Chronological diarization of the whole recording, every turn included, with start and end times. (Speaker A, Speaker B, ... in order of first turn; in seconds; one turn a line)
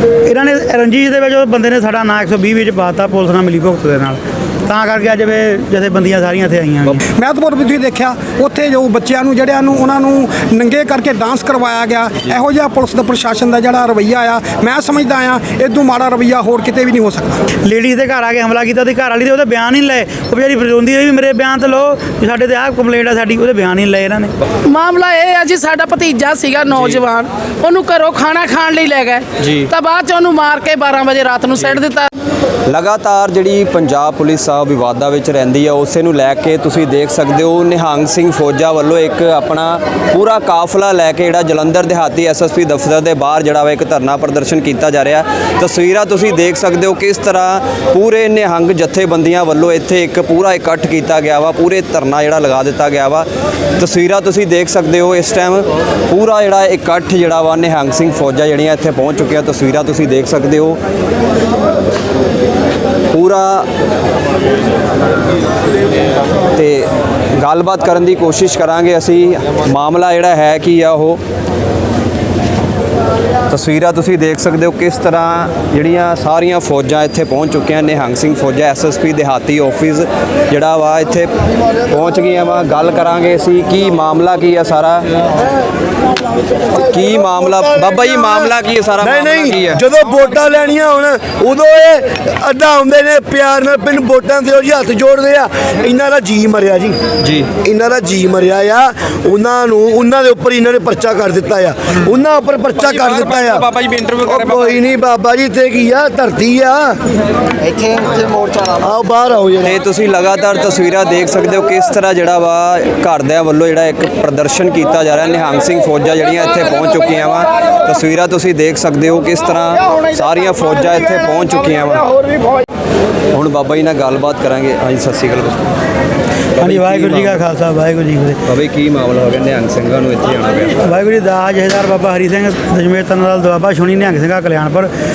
Speaker A: 0.2-7.0
Speaker B: 7.0-17.5
Speaker A: 17.6-24.3
Speaker C: 24.7-32.1
Speaker D: 29.4-29.7
Speaker D: 32.7-53.3
Speaker D: 53.8-60.8
Speaker D: 63.1-63.7
Speaker D: 66.5-71.2
Speaker D: 73.5-81.3
Speaker D: 81.9-85.1
Speaker D: 86.8-89.8
Speaker E: 87.8-88.5
Speaker E: 89.0-97.0
Speaker D: 97.2-97.5
Speaker E: 97.6-107.0
Speaker E: 107.8-109.8
Speaker D: 109.6-122.1
Speaker D: 123.3-125.6
Speaker D: 126.6-127.4
Speaker A: 126.6-128.4
Speaker D: 128.4-130.8
Speaker A: 130.8-134.9